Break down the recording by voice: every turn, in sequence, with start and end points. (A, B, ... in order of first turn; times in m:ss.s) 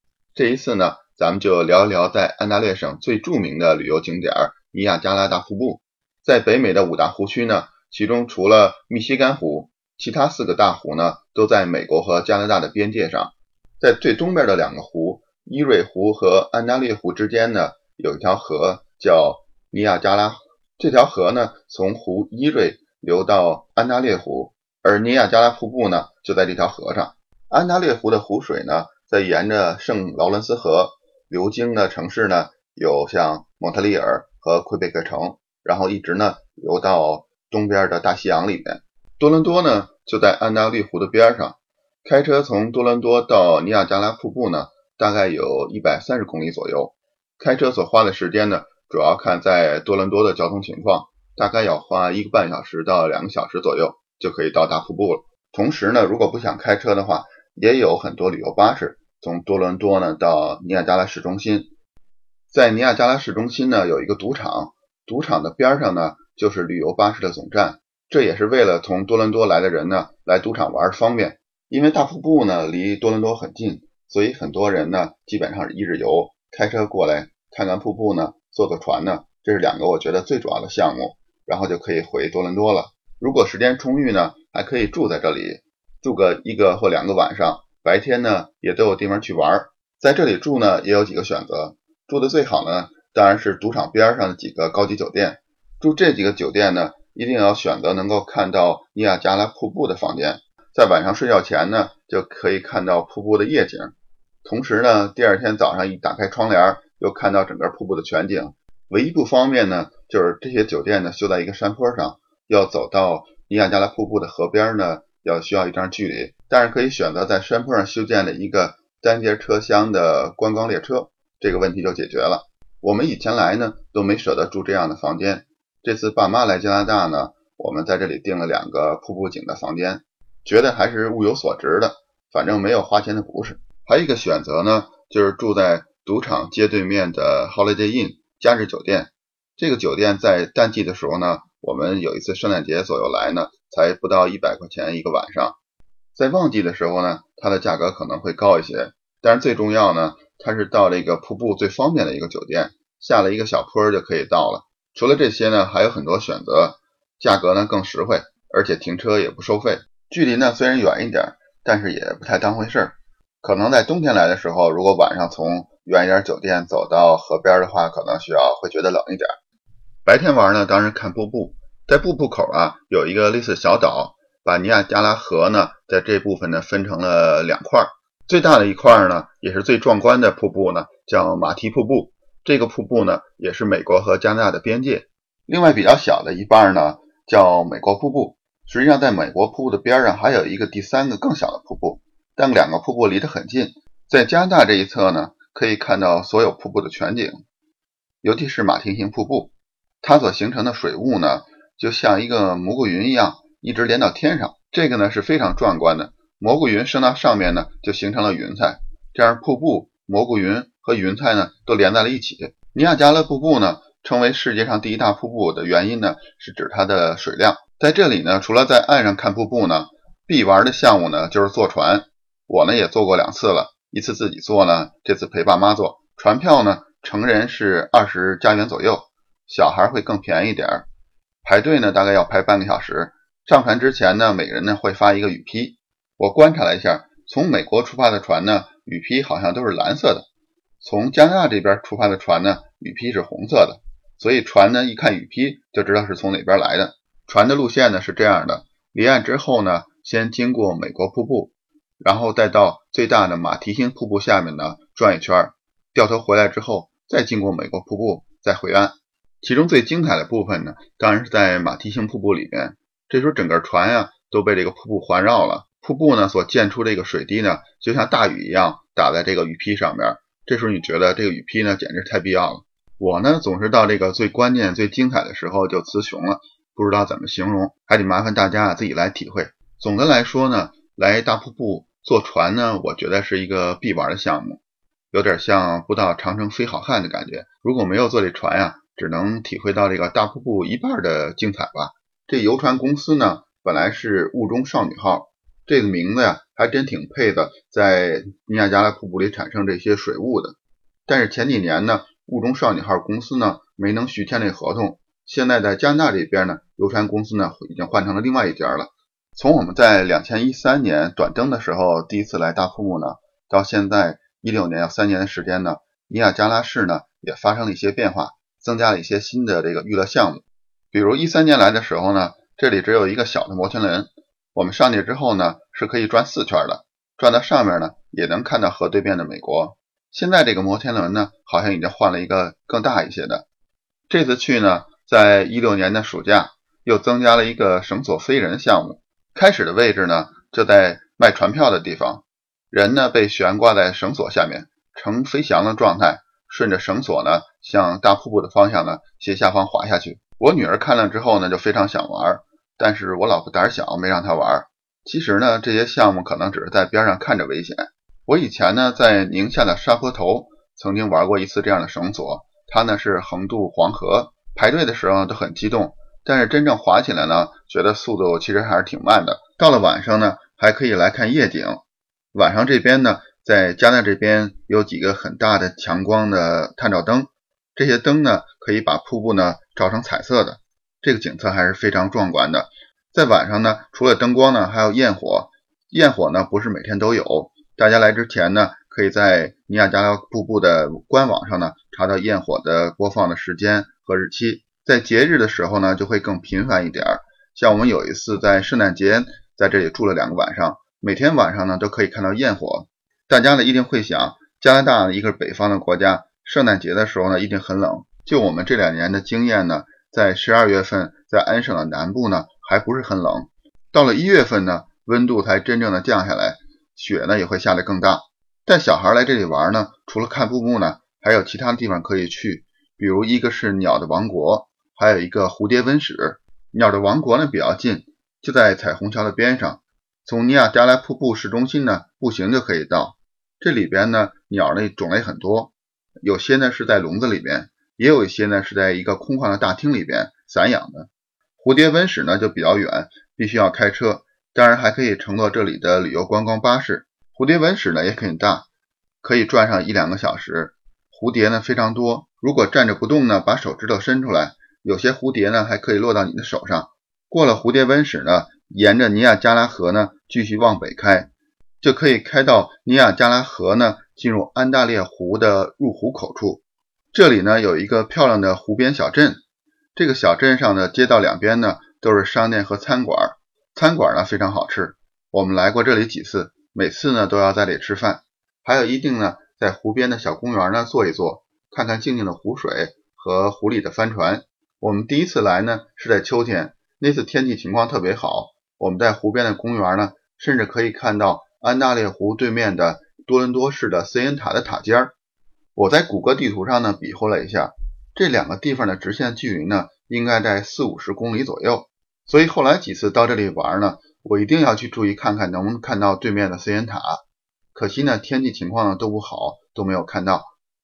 0:00.4-1:01.7 A
1:02.5-1:43.9 A
1:44.4-2:25.6 A
2:26.2-2:49.4 A
2:50.0-3:17.4 A
3:18.2-3:50.9 A
3:51.4-4:00.3 A
4:00.8-4:44.6 A
4:45.1-5:33.4 A
5:34.1-6:11.8 A
6:12.3-7:28.7 A
7:29.2-7:49.4 A
7:50.0-8:15.1 A
8:15.8-8:27.2 A
8:27.7-8:30.5 A